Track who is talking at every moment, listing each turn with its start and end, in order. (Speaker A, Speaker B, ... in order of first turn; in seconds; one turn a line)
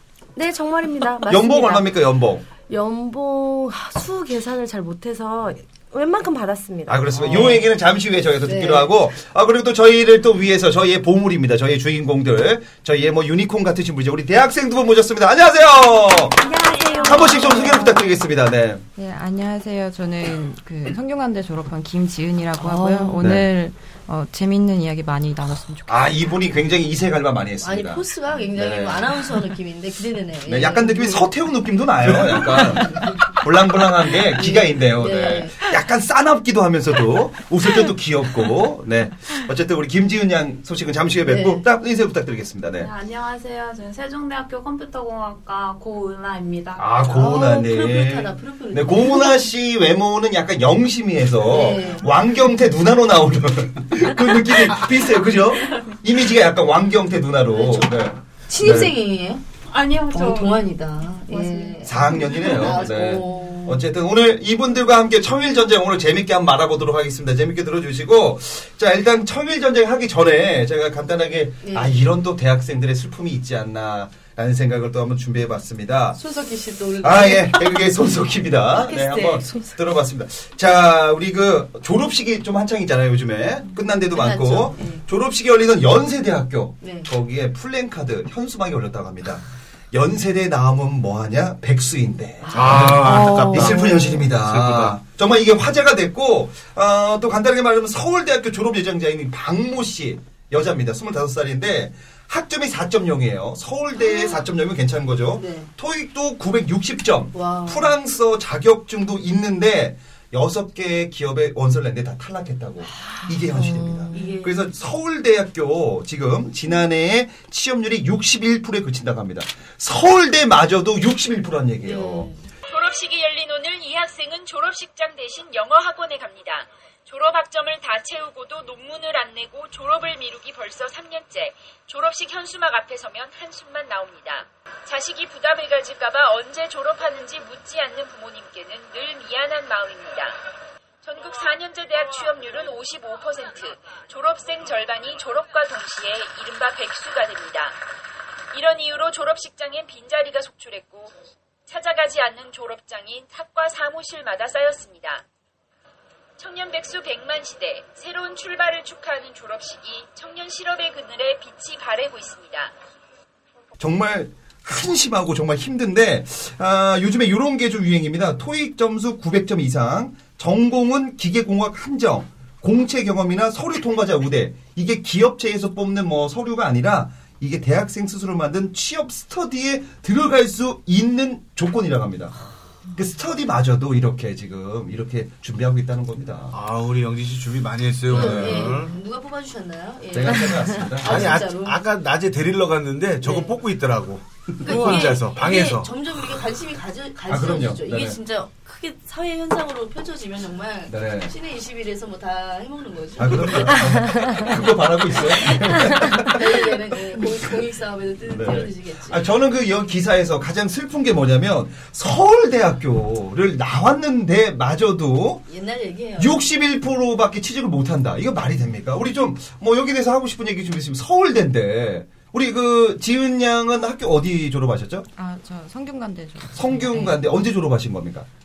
Speaker A: 0.4-1.9
Speaker B: 1.3-2.5
Speaker A: 2.7-7.0
Speaker B: 6.9-16.4
Speaker C: 7.2-7.7
Speaker C: 8.4-8.9
Speaker A: 16.4-18.2
Speaker B: 17.0-18.8
Speaker D: 19.0-26.3
Speaker C: 22.6-23.2
Speaker B: 23.2-23.5
Speaker B: 25.9-29.5
Speaker C: 27.6-31.3
Speaker B: 30.5-42.9
Speaker C: 32.8-33.3
Speaker C: 34.2-35.7
Speaker C: 41.3-41.6
Speaker E: 42.8-47.0
Speaker B: 46.8-59.0
Speaker C: 47.1-49.5
Speaker C: 51.5-52.1
Speaker C: 57.5-59.4
Speaker E: 59.7-63.4
Speaker C: 60.1-63.8
Speaker B: 61.9-76.2
Speaker C: 71.6-71.9
Speaker C: 76.2-78.1
Speaker B: 77.0-122.3
Speaker C: 78.7-79.7
Speaker C: 84.1-85.0
Speaker C: 86.8-87.1
Speaker C: 92.5-92.8
Speaker F: 92.5-95.0
Speaker C: 105.4-105.7
Speaker C: 107.3-108.0
Speaker A: 113.6-114.2
Speaker C: 114.1-114.7
Speaker C: 121.8-122.4
Speaker G: 122.7-140.4
Speaker G: 141.0-147.8
Speaker G: 148.5-151.1
Speaker G: 151.7-155.2
Speaker G: 156.4-162.7
Speaker B: 163.8-182.3
Speaker B: 182.9-186.6
Speaker F: 186.5-189.0
Speaker C: 188.1-191.8
Speaker B: 188.1-188.7
Speaker B: 190.1-191.3
Speaker F: 191.0-195.9
Speaker C: 193.2-193.6
Speaker C: 194.6-204.6
Speaker B: 197.3-198.2
Speaker B: 200.9-201.3
Speaker B: 203.2-207.2
Speaker C: 205.1-209.2
Speaker B: 208.3-215.4
Speaker C: 215.5-216.5
Speaker B: 216.2-225.1
Speaker D: 225.2-227.2
Speaker B: 226.6-228.3